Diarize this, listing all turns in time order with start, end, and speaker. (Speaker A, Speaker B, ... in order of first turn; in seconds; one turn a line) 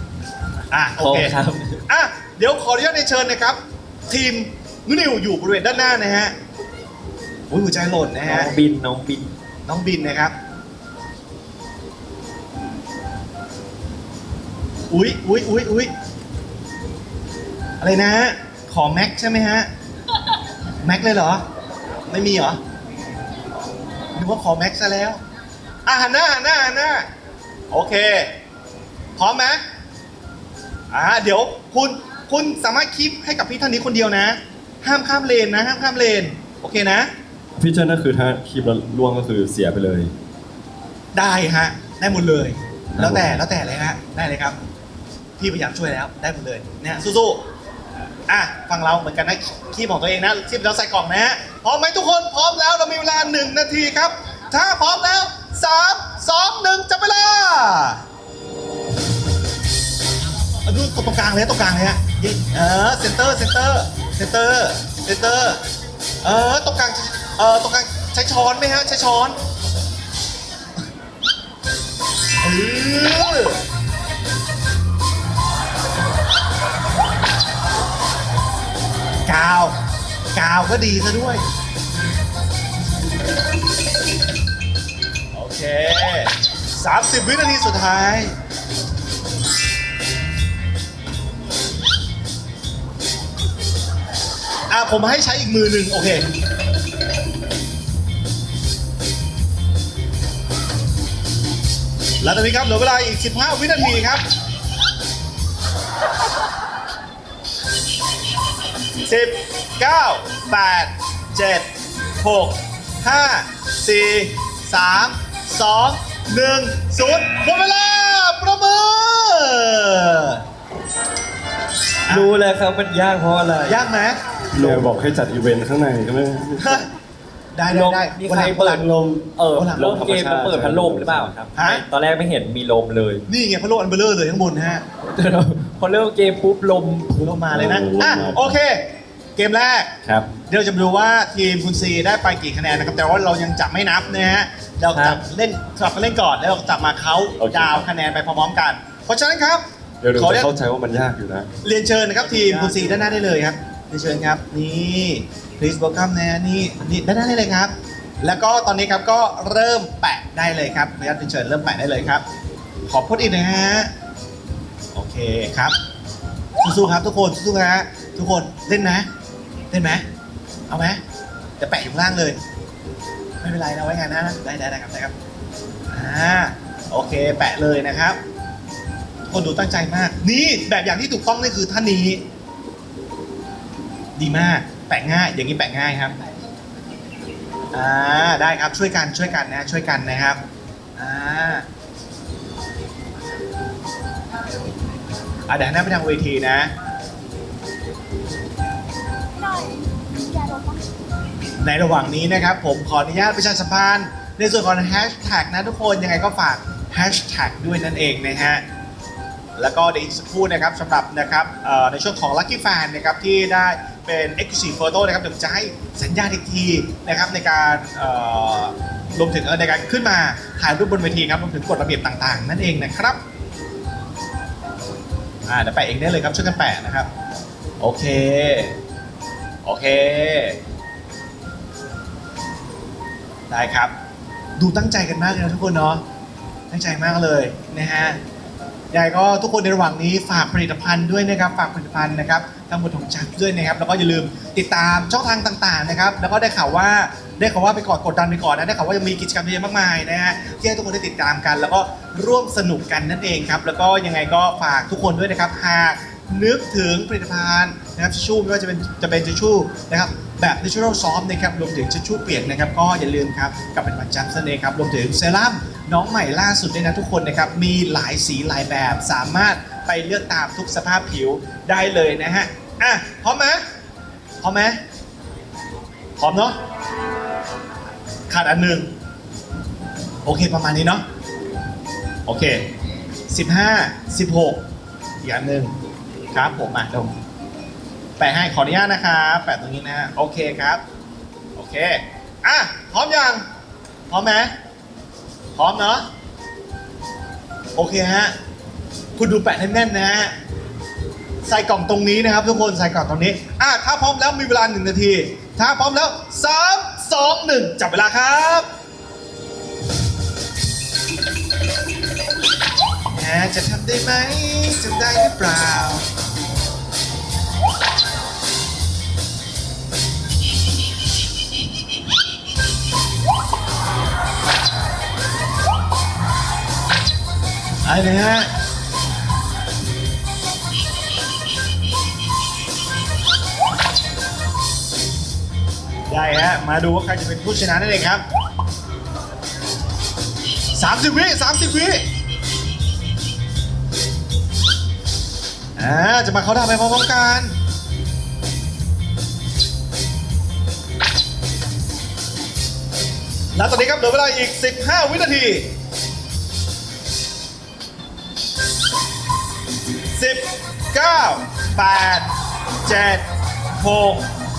Speaker A: 0.7-1.3
Speaker B: 1.0-1.8
Speaker A: 1.9-6.3
Speaker A: 7.5-8.5
Speaker B: 8.2-9.3
Speaker A: 9.7-10.3
Speaker A: 14.9-15.9
Speaker A: 17.8-19.7
Speaker A: 20.8-21.4
Speaker A: 22.1-22.6
Speaker A: 24.1-25.2
Speaker A: 25.9-27.1
Speaker A: 27.7-28.3
Speaker A: 29.2-29.6
Speaker A: 30.9-37.1
Speaker C: 37.6-40.1
Speaker A: 41.1-44.6
Speaker C: 42.9-43.4
Speaker A: 45.4-47.4
Speaker A: 48.3-58.0
Speaker A: 60.6-65.6
Speaker A: 66.2-69.4
Speaker A: 72.4-73.6
Speaker A: 79.2-79.8
Speaker A: 80.3-81.4
Speaker A: 85.3-88.3
Speaker A: 94.7-96.3
Speaker A: 102.2-104.2
Speaker A: 109.0-111.7
Speaker A: 112.2-120.4
Speaker B: 122.1-123.8
Speaker A: 123.7-124.8
Speaker C: 124.5-126.9
Speaker A: 126.6-126.9
Speaker A: 127.5-128.8
Speaker B: 127.7-133.2
Speaker C: 128.9-131.4
Speaker A: 129.6-129.9
Speaker A: 131.6-131.8
Speaker A: 133.3-134.8
Speaker B: 135.0-137.3
Speaker A: 137.2-139.9
Speaker C: 137.5-138.6
Speaker C: 140.1-140.3
Speaker A: 140.5-149.6
Speaker B: 144.9-145.2
Speaker C: 147.4-147.9
Speaker C: 150.0-151.5
Speaker A: 150.1-150.5
Speaker A: 151.6-162.2
Speaker B: 152.2-153.3
Speaker A: 162.9-163.9
Speaker A: 164.9-165.8
Speaker A: 166.6-169.1
Speaker A: 169.7-170.1
Speaker A: 170.7-171.0
Speaker A: 171.6-172.4
Speaker A: 173.4-175.1
Speaker A: 175.9-178.2
Speaker A: 179.3-182.2
Speaker A: 184.2-186.2
Speaker A: 187.7-190.4
Speaker A: 190.9-191.6
Speaker A: 195.5-196.7
Speaker A: 201.6-208.6
Speaker A: 209.6-223.2
Speaker A: 225.4-227.1
Speaker A: 227.8-228.8
Speaker A: 229.6-230.6
Speaker A: 233.5-233.9
Speaker A: 234.6-236.0
Speaker A: 236.7-238.2
Speaker A: 238.9-273.6
Speaker A: 274.4-274.8
Speaker A: 276.2-276.6
Speaker A: 278.3-278.9
Speaker A: 280.2-281.0
Speaker A: 282.3-282.7
Speaker A: 283.3-284.6
Speaker A: 285.2-285.7
Speaker A: 286.3-287.1
Speaker A: 288.2-290.8
Speaker A: 291.6-293.4
Speaker A: 294.1-294.5
Speaker A: 295.6-296.1
Speaker A: 297.8-298.4
Speaker A: 299.2-300.3
Speaker A: 301.4-308.7
Speaker A: 313.1-316.1
Speaker A: 327.8-328.5
Speaker A: 336.1-338.2
Speaker A: 340.7-342.0
Speaker A: 345.8-347.5
Speaker A: 353.6-355.7
Speaker A: 360.1-362.3
Speaker A: 362.8-364.3